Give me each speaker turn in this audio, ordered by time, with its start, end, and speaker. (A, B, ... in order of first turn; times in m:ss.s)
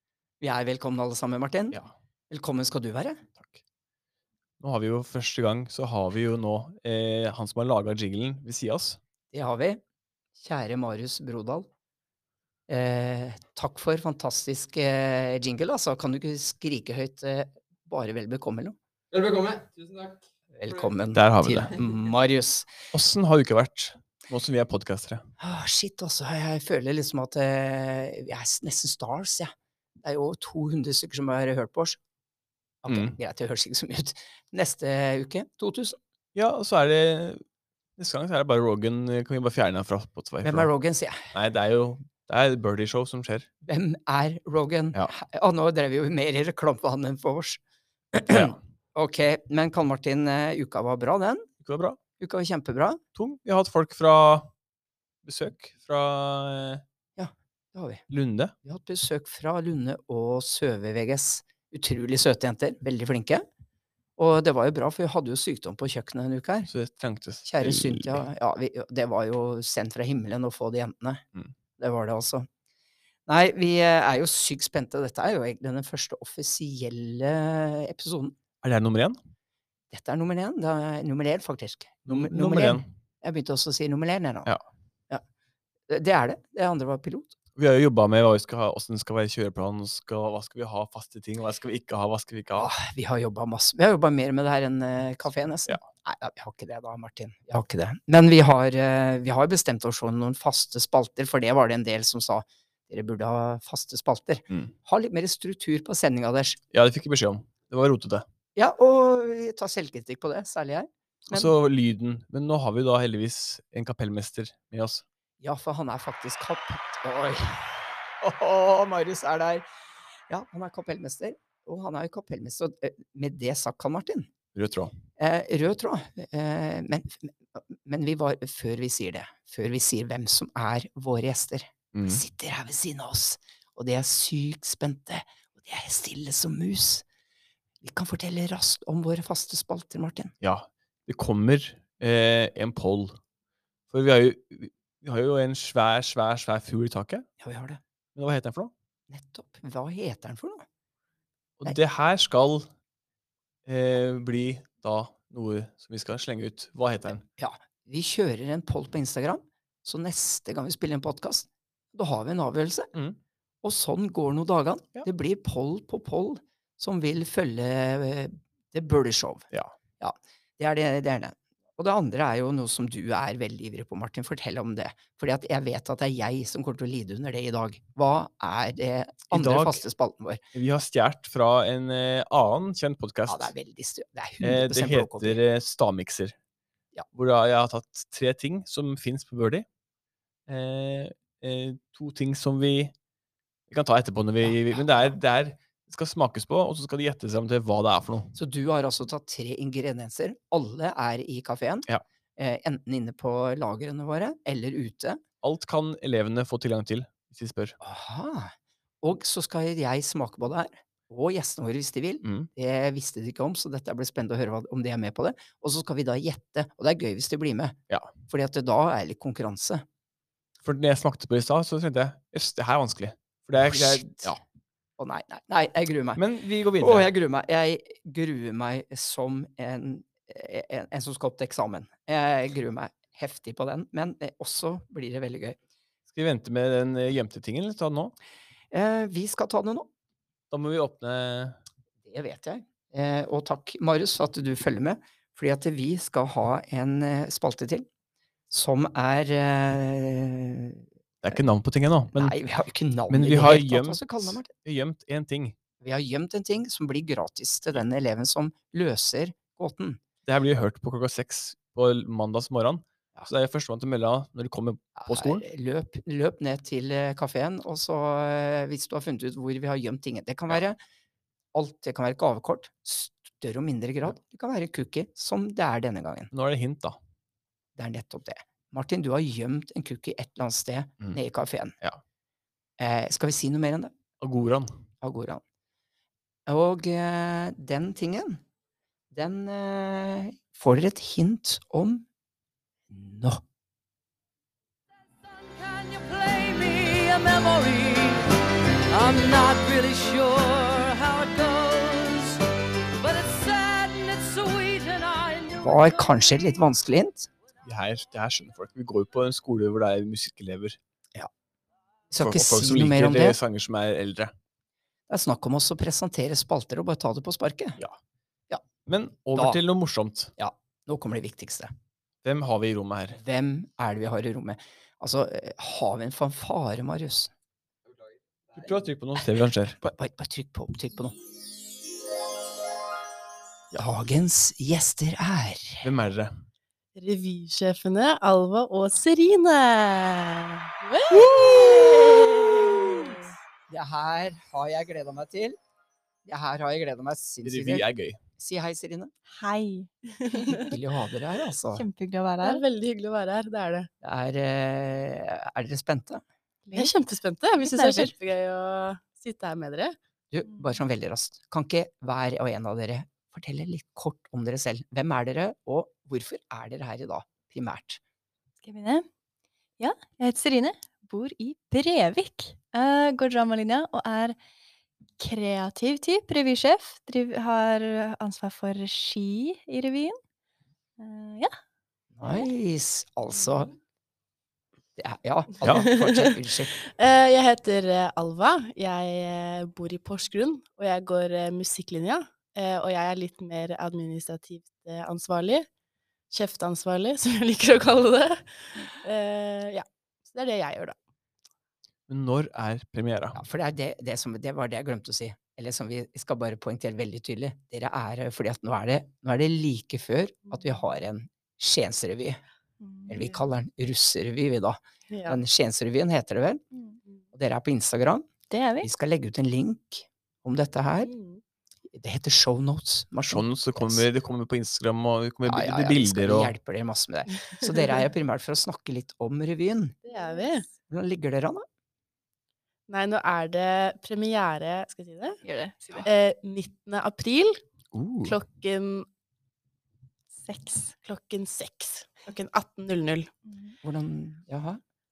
0:00.4-0:01.8 A
0:02.3-0:03.2 A
0:04.6-0:09.0 B
0:09.3-0:09.8 A
0:10.4-0:11.7 A
0:12.7-0:18.8 A
0:19.1-0:21.0 C
0:20.5-0:22.7 A
0:21.1-0:21.7 B
0:22.9-0:25.2 B
0:25.4-0:32.0 A
0:32.8-0:36.0 A
0:32.8-0:33.2 B
0:36.3-0:37.4 B
0:38.0-0:40.7 B
0:40.4-0:41.3 A
0:41.3-0:43.5 B
0:43.6-0:47.6 A
0:48.1-0:51.5 A
0:48.3-0:48.6 B
0:51.6-0:52.0 B
0:52.2-0:53.0 A
0:53.2-0:54.5 B
0:55.2-0:56.8 B
0:57.2-0:58.0 A
0:58.1-0:58.5 B
0:58.6-1:03.4 A
1:04.2-1:06.7 A
1:06.7-1:08.2 B
1:07.4-1:11.2 A
1:11.8-1:12.5 A
1:13.3-1:18.4 A
1:18.6-1:19.2 B
1:19.9-1:24.5 A
1:22.0-1:22.9 B
1:25.9-1:27.4 A
1:27.6-1:32.7 B
1:32.6-1:46.6 A
1:46.7-1:48.2 B
1:48.6-1:51.5 A
1:51.3-1:55.0 B
1:55.4-1:59.7 A
2:00.3-2:04.3 A
2:04.5-2:04.9 B
2:05.2-2:17.0 A
2:11.9-2:12.2 B
2:17.8-2:20.3 A
2:20.4-2:23.2 B
2:23.9-2:27.2 B
2:27.4-2:27.8 A
2:28.2-2:28.7 B
2:29.1-2:30.6 A
2:31.6-2:32.7 B
2:33.7-2:37.2 B
2:37.4-2:42.9 A
2:43.6-2:49.5 A
2:50.0-3:00.4 A
2:59.3-2:59.8 B
3:00.5-3:03.5 B
3:03.3-3:05.4 A
3:04.4-3:06.3 B
3:07.1-3:09.6 B
3:10.5-3:12.9 B
3:13.7-3:18.3 B
3:14.4-3:15.2 A
3:18.3-3:25.2 A
3:25.4-3:27.8 B
3:27.8-3:37.8 A
3:32.2-3:32.5 B
3:38.3-3:39.8 A
3:40.6-3:44.4 B
3:43.7-3:44.3 A
3:45.0-3:46.2 A
3:46.2-3:47.1 B
3:46.8-3:55.6 A
3:56.1-3:58.1 B
3:58.7-3:59.9 A
4:00.5-4:01.6 B
4:02.0-4:07.9 A
4:08.5-4:11.4 A
4:11.2-4:12.3 B
4:12.1-4:14.5 A
4:13.1-4:15.5 B
4:15.8-4:20.0 A
4:20.2-4:25.4 B
4:25.0-4:30.8 A
4:31.5-4:36.3 A
4:36.3-4:37.0 B
4:37.8-4:41.8 A
4:42.8-4:43.9 A
4:44.2-4:44.8 B
4:45.0-4:45.4 A
4:46.5-4:48.4 A
4:49.1-4:52.0 A
4:52.9-4:53.4 A
4:55.2-4:58.3 C
4:58.9-5:02.4 C
5:03.0-5:06.1 C
5:05.6-5:07.3 A
5:07.6-5:10.8 B
5:12.1-5:13.4 A
5:12.2-5:14.3 B
5:15.1-5:17.8 A
5:18.9-5:20.3 B
5:19.4-5:19.6 A
5:20.4-5:21.7 A
5:22.2-5:23.2 B
5:23.1-5:27.3 A
5:28.6-5:29.8 B
5:29.8-5:31.2 A
5:33.8-5:35.9 A
5:35.8-5:36.4 B
5:37.0-5:43.3 D
5:40.8-5:41.2 E
5:41.1-5:41.5 B
5:42.6-5:43.2 E
5:43.7-5:45.6 A
5:46.2-5:47.8 A
5:47.4-5:48.2 B
5:48.4-5:49.1 A
5:49.3-5:50.6 E
5:50.3-5:50.7 D
5:50.5-5:51.9 A
5:51.7-5:52.6 E
5:52.4-5:53.9 D
5:54.0-5:56.2 A
5:56.6-5:56.9 E
5:56.8-6:00.0 D
5:57.6-5:58.1 E
6:00.3-6:08.0 A
6:08.6-6:09.0 E
6:09.8-6:14.4 E
6:15.2-6:20.2 E
6:21.0-6:21.5 E
6:22.1-6:23.7 A
6:25.0-6:26.7 A
6:25.8-6:35.7 D
6:36.3-6:41.0 D
6:42.1-6:43.4 B
6:43.4-6:52.4 A
6:52.8-6:53.4 E
6:53.1-6:56.6 A
6:55.1-6:55.4 D
6:57.3-6:58.2 A
6:58.5-6:58.9 E
6:58.8-7:01.1 A
7:01.0-7:01.4 D
7:01.9-7:04.0 A
7:03.3-7:06.5 B
7:05.4-7:10.0 A
7:10.0-7:10.6 D
7:10.9-7:11.6 A
7:12.9-7:15.4 D
7:15.4-7:16.1 E
7:16.0-7:17.6 D
7:17.9-7:18.4 B
7:18.2-7:19.0 D
7:20.4-7:20.9 E
7:21.0-7:23.3 D
7:23.5-7:23.8 E
7:23.8-7:24.8 A